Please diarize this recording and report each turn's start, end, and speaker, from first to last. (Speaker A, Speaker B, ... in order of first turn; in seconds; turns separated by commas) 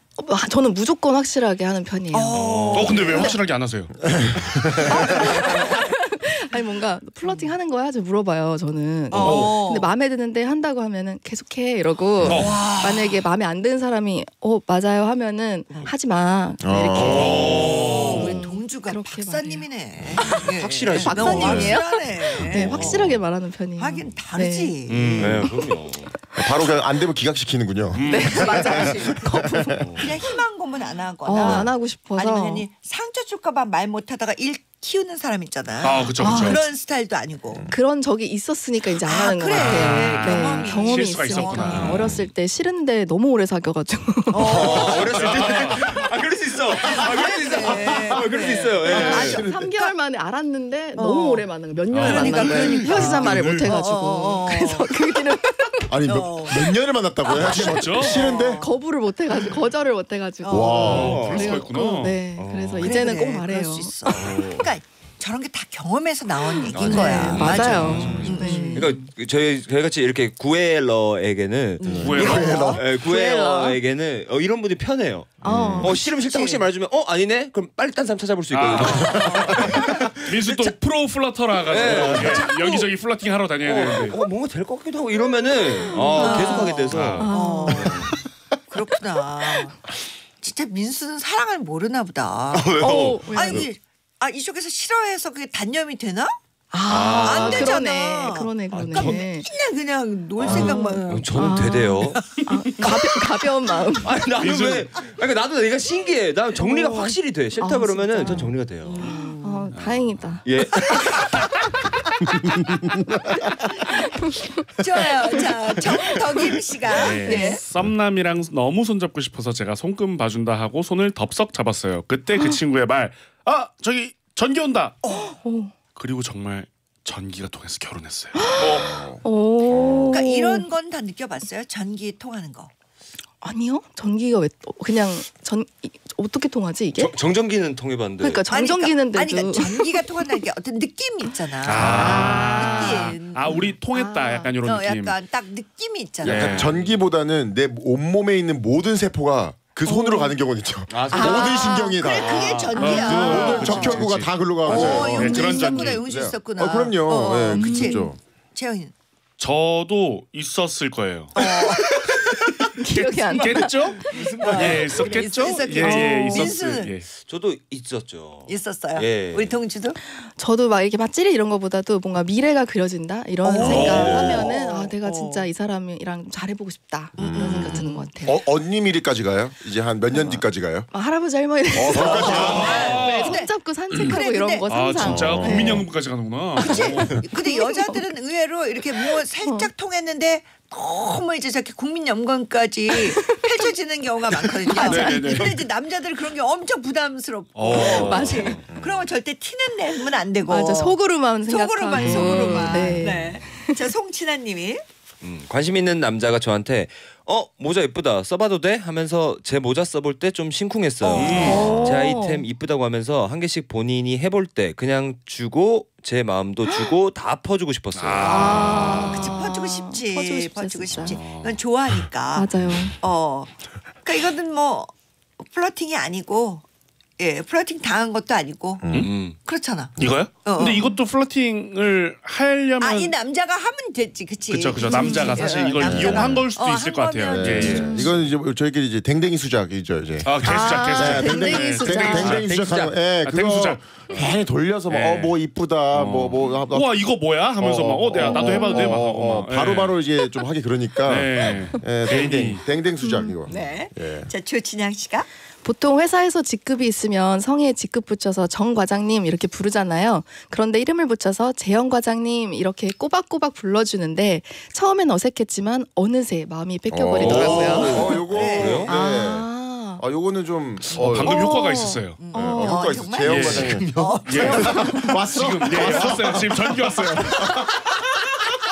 Speaker A: 0.2-2.4, Speaker B: 2.1-3.4, Speaker C: 2.3-3.3, Speaker D: 2.7-3.9, Speaker E: 4.1-5.0, Speaker B: 4.8-6.0, Speaker A: 4.8-19.6, Speaker B: 9.1-9.9, Speaker D: 9.2-9.5, Speaker E: 12.2-12.5, Speaker D: 12.2-12.6, Speaker B: 12.2-13.2, Speaker E: 16.6-17.8, Speaker D: 16.9-18.4, Speaker B: 17.1-23.2, Speaker C: 20.1-21.8, Speaker A: 21.0-24.7, Speaker C: 22.4-23.2, Speaker B: 23.8-25.5, Speaker D: 24.9-25.4, Speaker C: 25.2-26.1, Speaker A: 25.4-25.7, Speaker E: 26.4-30.0, Speaker D: 27.9-28.6, Speaker A: 28.0-30.4, Speaker B: 28.3-29.1, Speaker C: 29.8-30.1, Speaker B: 30.0-37.7, Speaker A: 31.2-32.6, Speaker E: 31.4-31.7, Speaker D: 35.8-36.6, Speaker A: 36.2-36.6, Speaker A: 37.7-44.9, Speaker B: 39.0-42.0, Speaker D: 39.5-42.1, Speaker C: 41.8-42.1, Speaker B: 44.3-45.9, Speaker C: 44.4-49.4, Speaker D: 45.0-45.9, Speaker B: 46.8-49.3, Speaker E: 47.9-49.7, Speaker A: 48.6-56.0, Speaker B: 51.0-51.5, Speaker D: 51.9-53.5, Speaker B: 52.0-55.0, Speaker E: 52.4-52.8, Speaker C: 53.0-53.6, Speaker E: 55.9-58.6, Speaker B: 56.0-56.6, Speaker B: 57.2-58.8, Speaker D: 57.4-58.3, Speaker A: 58.6-64.5, Speaker B: 60.4-61.0, Speaker E: 60.5-61.3, Speaker C: 60.8-61.6, Speaker D: 60.9-62.2, Speaker C: 62.4-63.1, Speaker B: 62.8-69.1, Speaker C: 64.1-64.7, Speaker A: 66.4-69.0, Speaker C: 66.7-80.3, Speaker D: 67.7-68.2, Speaker B: 71.8-72.9, Speaker E: 71.8-72.8, Speaker D: 72.0-72.6, Speaker A: 72.3-73.8, Speaker E: 75.4-75.9, Speaker A: 75.4-75.9, Speaker B: 75.8-76.6, Speaker D: 78.5-84.2, Speaker B: 78.7-79.8, Speaker E: 79.0-79.8, Speaker C: 81.7-82.9, Speaker E: 81.8-82.3, Speaker C: 83.6-88.1, Speaker A: 85.9-88.0, Speaker B: 86.2-88.2, Speaker D: 86.9-87.2, Speaker B: 88.7-89.8, Speaker B: 90.4-96.3, Speaker C: 92.5-93.7, Speaker A: 92.8-93.7, Speaker A: 96.7-99.5, Speaker C: 96.9-97.8, Speaker B: 97.1-101.6, Speaker C: 98.7-99.2, Speaker C: 100.4-102.2, Speaker A: 100.4-104.2, Speaker B: 102.2-103.1, Speaker C: 104.0-109.2, Speaker D: 104.4-104.9, Speaker A: 106.5-110.5, Speaker B: 108.8-109.7, Speaker D: 109.7-110.3, Speaker C: 110.4-111.4, Speaker B: 110.9-111.5, Speaker E: 112.8-113.0, Speaker A: 114.0-114.6, Speaker B: 114.8-117.6, Speaker D: 116.9-125.0, Speaker A: 117.2-117.6, Speaker B: 125.0-125.4, Speaker A: 125.4-125.7, Speaker D: 126.0-128.9, Speaker A: 128.3-130.7, Speaker E: 128.6-130.1, Speaker B: 130.1-132.7, Speaker A: 133.4-137.1, Speaker C: 136.9-138.4, Speaker A: 138.2-140.4, Speaker B: 138.5-143.6, Speaker D: 141.6-145.2, Speaker A: 141.8-144.5, Speaker B: 144.7-146.7, Speaker E: 146.2-155.5, Speaker D: 146.2-146.7, Speaker A: 149.8-150.3, Speaker C: 150.9-153.0, Speaker B: 151.1-154.0, Speaker A: 152.8-153.7, Speaker D: 152.8-156.0, Speaker B: 154.6-158.9, Speaker A: 155.1-155.9, Speaker E: 156.0-158.2, Speaker A: 157.5-158.1, Speaker D: 159.4-161.7, Speaker B: 161.3-162.6, Speaker D: 162.6-167.1, Speaker A: 162.8-164.3, Speaker C: 164.0-165.5, Speaker B: 164.4-166.9, Speaker A: 165.8-166.5, Speaker C: 167.1-169.6, Speaker B: 168.5-170.0, Speaker A: 170.1-178.4, Speaker B: 173.4-175.5, Speaker D: 173.6-174.1, Speaker C: 173.6-174.5, Speaker E: 177.2-180.9, Speaker B: 177.2-178.1, Speaker A: 180.9-185.8, Speaker E: 181.7-183.0, Speaker B: 181.9-184.7, Speaker D: 182.2-184.2, Speaker D: 184.7-187.2, Speaker E: 184.9-185.8, Speaker B: 186.6-204.8, Speaker A: 186.6-188.1, Speaker A: 189.0-189.7, Speaker A: 192.9-193.7, Speaker A: 194.6-195.4, Speaker D: 194.8-195.6, Speaker D: 197.5-198.5, Speaker A: 197.7-198.6, Speaker C: 197.8-198.8, Speaker E: 198.7-199.0, Speaker A: 200.5-203.8, Speaker D: 202.2-202.7, Speaker C: 202.8-203.2, Speaker C: 205.2-218.9, Speaker B: 211.0-211.8, Speaker D: 211.1-211.8, Speaker A: 211.4-212.4, Speaker A: 216.7-216.9, Speaker D: 217.9-219.3, Speaker A: 218.2-221.2, Speaker B: 218.2-222.5, Speaker D: 221.1-221.6, Speaker A: 222.3-222.9, Speaker B: 223.0-226.6, Speaker B: 227.2-228.9, Speaker E: 228.8-229.1, Speaker C: 229.0-229.4, Speaker B: 229.4-230.8, Speaker D: 230.0-233.1, Speaker A: 230.6-231.0, Speaker B: 232.8-238.2, Speaker D: 234.5-238.0, Speaker A: 234.8-235.5, Speaker E: 235.8-236.4, Speaker E: 237.3-246.9, Speaker A: 237.6-238.2, Speaker D: 240.2-242.5, Speaker A: 240.4-242.4, Speaker C: 242.1-243.0, Speaker D: 243.2-244.3, Speaker D: 244.9-245.4, Speaker D: 245.9-250.0, Speaker E: 247.6-254.3, Speaker A: 248.2-249.0, Speaker D: 251.1-252.6, Speaker A: 253.0-253.3, Speaker B: 253.5-255.3, Speaker A: 255.6-268.2, Speaker E: 266.9-271.5, Speaker C: 267.2-268.9, Speaker B: 267.6-268.9, Speaker A: 268.8-270.0, Speaker D: 270.9-272.2, Speaker A: 271.2-273.1, Speaker B: 272.2-275.0, Speaker E: 272.3-278.2, Speaker D: 273.2-277.6, Speaker A: 274.3-275.1